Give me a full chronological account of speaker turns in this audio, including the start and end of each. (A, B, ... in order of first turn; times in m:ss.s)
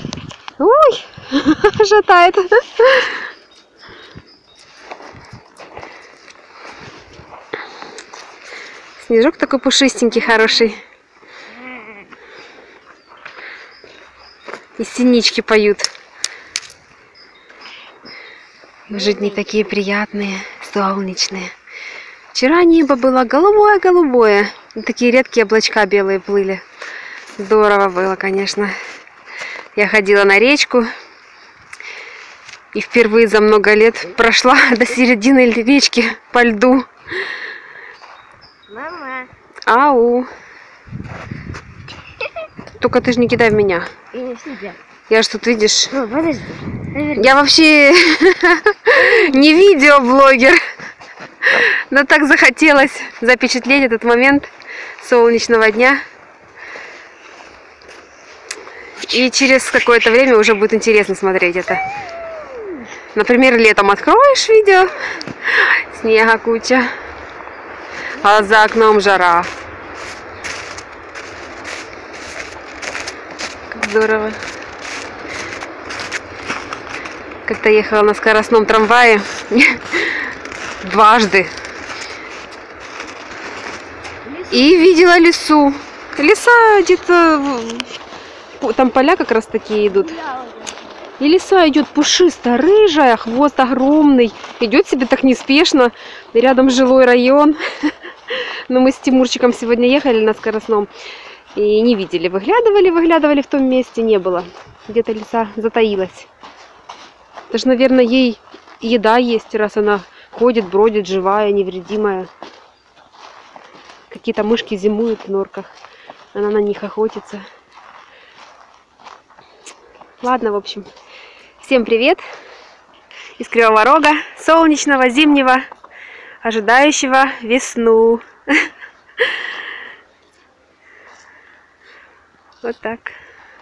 0:00.6-0:03.2 A
0:09.0-0:10.8 A
0:14.8-0:15.9 A
0:18.9-0:21.5 A
0:19.0-0:19.3 B
0:22.3-0:26.6 A
0:27.4-0:28.7 A
0:29.7-0:30.9 A
0:32.7-0:36.9 A
0:38.7-0:39.3 B
0:39.7-0:40.3 A
0:42.8-0:43.9 A
0:44.1-0:44.8 B
0:45.1-0:45.9 A
0:45.9-0:47.3 B
0:47.1-0:50.6 A
0:48.9-0:49.4 B
0:51.5-0:56.0 A
0:59.1-1:01.8 A
1:03.1-1:06.9 A
1:08.2-1:09.5 A
1:13.7-1:14.4 A
1:17.4-1:20.2 A
1:20.8-1:21.5 A
1:24.5-1:27.9 A
1:28.6-1:30.2 A
1:31.2-1:37.6 A
1:38.3-1:40.9 A
1:41.5-1:46.3 A
1:47.5-1:52.3 A
1:54.1-1:55.7 A
1:56.3-1:57.4 A
2:00.2-2:00.9 A
2:01.6-2:02.2 A
2:03.4-2:05.6 A
2:06.4-2:08.2 A
2:12.6-2:13.1 A